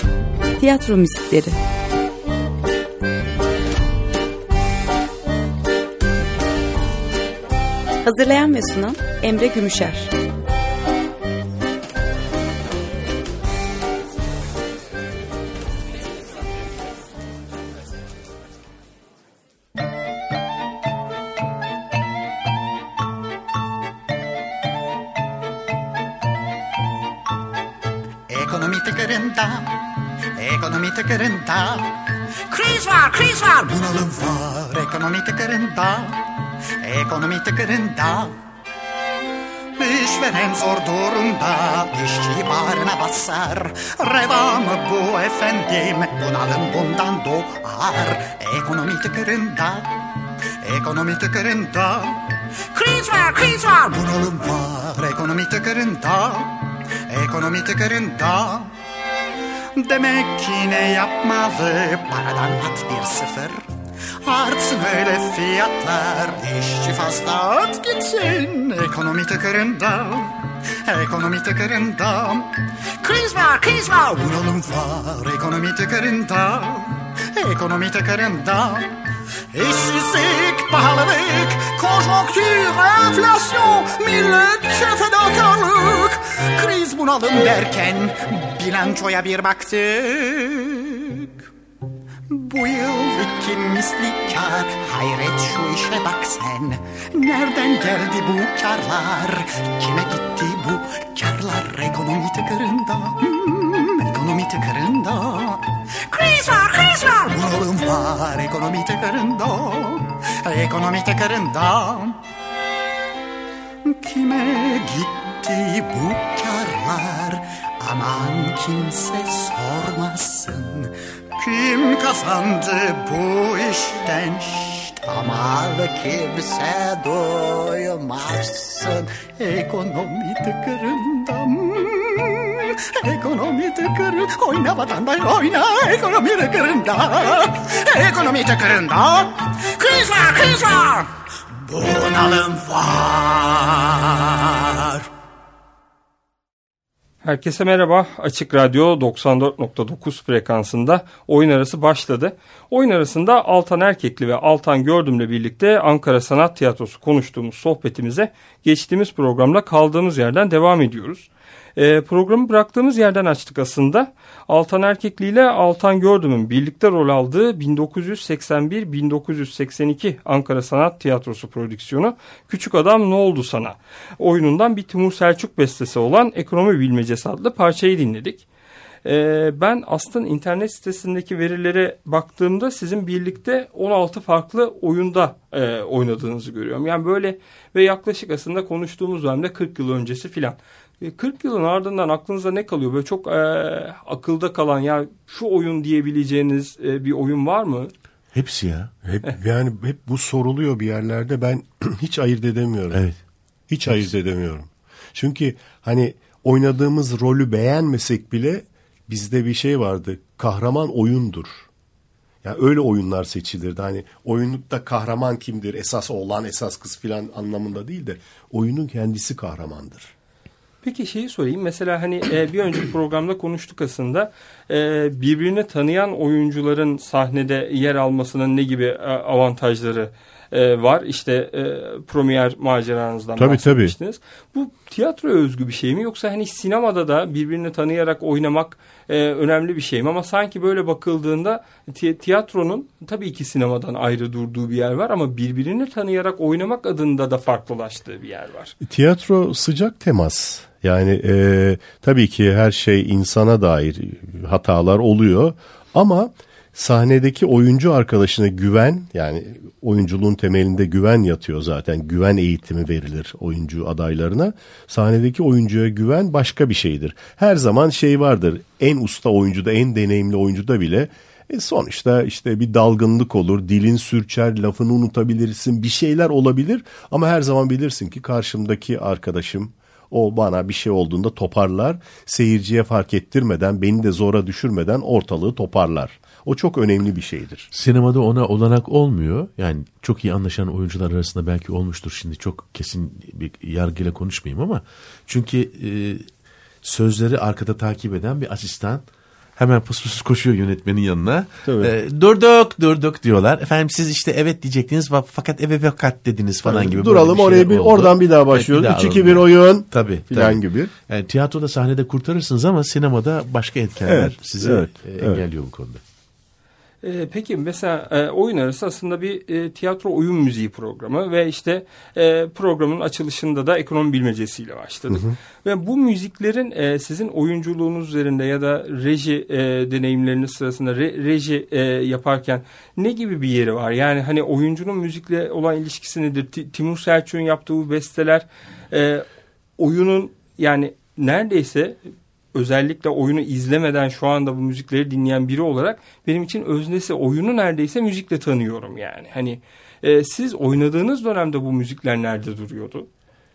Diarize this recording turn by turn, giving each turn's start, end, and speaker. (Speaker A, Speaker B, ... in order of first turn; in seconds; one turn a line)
Speaker A: 0.6-1.6
Speaker A: 8.0-10.1
Speaker B: 28.3-38.4
Speaker B: 39.8-50.0
Speaker B: 50.6-58.7
Speaker B: 59.8-63.6
Speaker B: 64.2-78.9
Speaker B: 79.5-91.4
Speaker B: 92.3-112.2
Speaker B: 113.8-145.1
Speaker C: 147.2-178.4
Speaker C: 179.0-197.9
Speaker D: 198.3-198.9
Speaker E: 199.0-203.0
Speaker D: 202.9-203.2
Speaker E: 203.7-211.7
Speaker E: 212.4-220.1
Speaker C: 220.8-248.7
Speaker E: 233.4-233.9
Speaker E: 248.8-287.7
Speaker D: 287.7-296.2
Speaker D: 296.8-299.0
Speaker D: 299.6-316.0
Speaker E: 301.6-301.9
Speaker E: 306.6-310.9
Speaker E: 314.0-315.4
Speaker C: 317.0-339.2
Speaker E: 325.1-325.4
Speaker C: 339.8-342.0
Speaker C: 342.5-353.1